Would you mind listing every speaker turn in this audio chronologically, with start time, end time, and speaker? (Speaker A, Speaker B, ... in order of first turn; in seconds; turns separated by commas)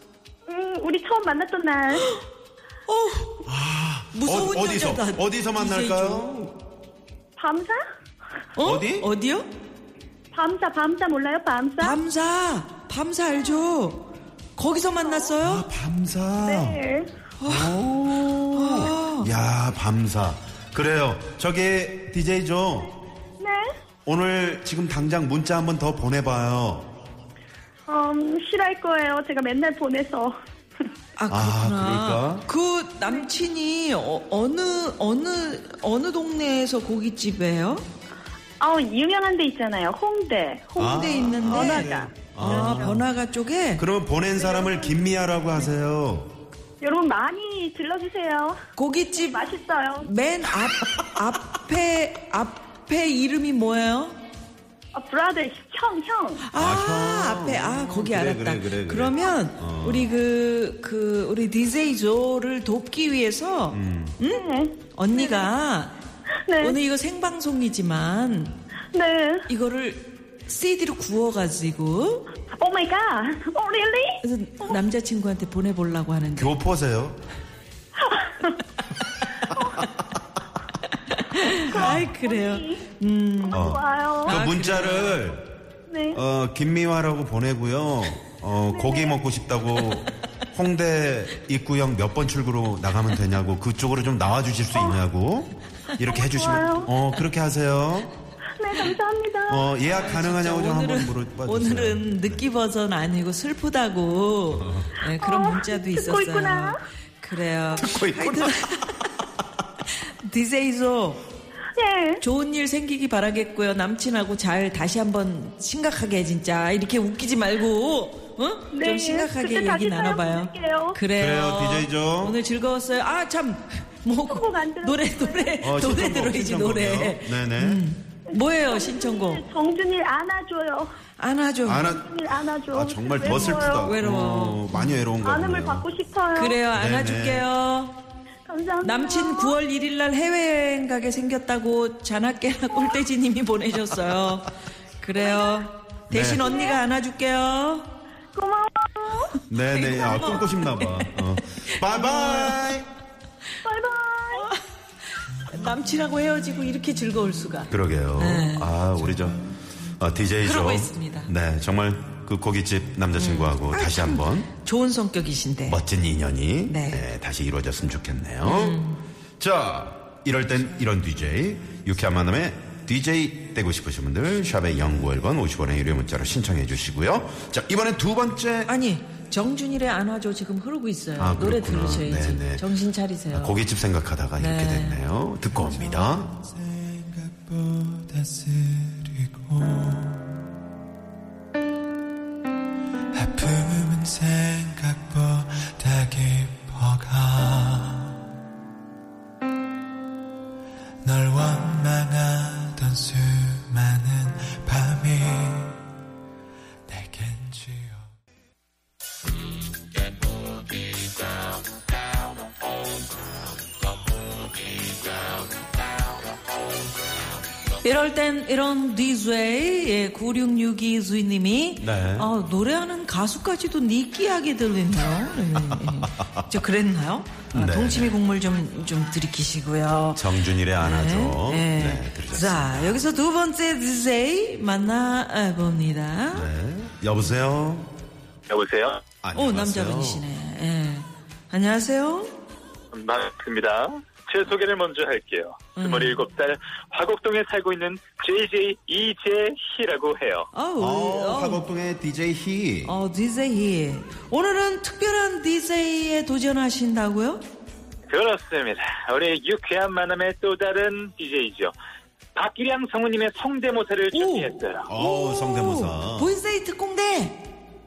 Speaker A: 0.5-2.1, Speaker B: 2.9-3.4, Speaker C: 3.4-6.5, Speaker B: 4.1-6.5, Speaker A: 7.4-7.8, Speaker B: 8.5-9.5, Speaker C: 8.6-9.1, Speaker A: 10.3-12.0, Speaker B: 11.8-15.7, Speaker A: 15.0-15.3, Speaker C: 15.4-16.8, Speaker A: 16.4-17.1, Speaker B: 17.4-17.8, Speaker C: 17.4-22.9, Speaker B: 18.5-19.3, Speaker A: 23.4-23.7, Speaker C: 24.1-26.9, Speaker A: 27.9-30.4, Speaker B: 31.2-37.8, Speaker C: 31.3-32.5, Speaker A: 38.6-42.9, Speaker C: 40.8-43.1, Speaker B: 40.8-43.8, Speaker C: 43.8-46.3, Speaker A: 44.4-44.9, Speaker A: 46.8-48.6, Speaker B: 48.8-49.5, Speaker A: 49.1-50.1, Speaker B: 50.0-54.2, Speaker A: 54.9-56.4, Speaker B: 56.4-65.9, Speaker C: 56.5-60.1, Speaker C: 63.7-64.2, Speaker A: 64.2-65.5, Speaker A: 66.5-66.8, Speaker B: 66.6-68.5, Speaker A: 68.9-69.5, Speaker B: 69.5-72.3, Speaker A: 72.6-74.8, Speaker B: 74.2-76.5, Speaker C: 76.3-77.2, Speaker B: 81.1-83.7, Speaker A: 81.7-82.8, Speaker A: 83.4-84.4, Speaker C: 83.5-85.5, Speaker B: 84.2-85.3, Speaker A: 85.9-86.2, Speaker C: 86.1-98.1, Speaker A: 88.7-89.2, Speaker A: 96.1-96.9, Speaker A: 98.6-99.7, Speaker C: 99.5-102.4, Speaker B: 99.9-109.0, Speaker C: 104.5-104.9, Speaker A: 105.2-106.8, Speaker C: 107.7-109.0, Speaker B: 110.0-111.2, Speaker A: 111.8-112.2, Speaker B: 112.2-129.4, Speaker A: 118.7-121.0, Speaker C: 121.2-122.4, Speaker A: 124.3-125.6, Speaker C: 125.6-127.8, Speaker A: 128.3-131.0, Speaker B: 131.2-131.9, Speaker C: 131.6-135.8, Speaker A: 131.8-133.9, Speaker B: 133.2-135.0, Speaker A: 135.2-136.6, Speaker B: 136.3-138.0, Speaker C: 136.7-137.5, Speaker A: 138.5-139.6, Speaker B: 138.8-147.9, Speaker A: 145.2-145.6, Speaker C: 146.1-146.4, Speaker A: 146.4-146.8, Speaker A: 148.3-149.3, Speaker C: 149.5-152.9, Speaker B: 149.7-152.6, Speaker A: 153.6-154.5, Speaker B: 155.4-158.7, Speaker C: 157.7-164.5, Speaker B: 160.4-161.3, Speaker B: 163.1-165.8, Speaker C: 165.7-168.8, Speaker B: 166.7-167.1, Speaker B: 168.4-169.0, Speaker C: 169.4-178.7, Speaker B: 178.7-183.6, Speaker C: 181.2-182.6, Speaker C: 183.3-186.4, Speaker B: 184.4-185.0, Speaker B: 187.9-188.4, Speaker D: 194.2-194.8, Speaker D: 196.8-197.1, Speaker D: 201.4-203.5, Speaker D: 204.0-205.3, Speaker D: 206.9-207.7, Speaker B: 217.8-236.5, Speaker C: 221.8-222.3, Speaker C: 225.7-226.4, Speaker C: 227.5-228.1, Speaker C: 230.1-233.1, Speaker C: 236.3-237.9, Speaker E: 238.5-239.0, Speaker C: 239.2-240.2, Speaker B: 239.3-242.3, Speaker E: 242.9-250.5, Speaker B: 245.8-246.2, Speaker B: 250.5-251.7, Speaker C: 250.8-253.0, Speaker B: 252.8-257.4, Speaker E: 258.1-261.7, Speaker E: 262.3-264.9, Speaker B: 264.1-267.4, Speaker C: 264.9-266.4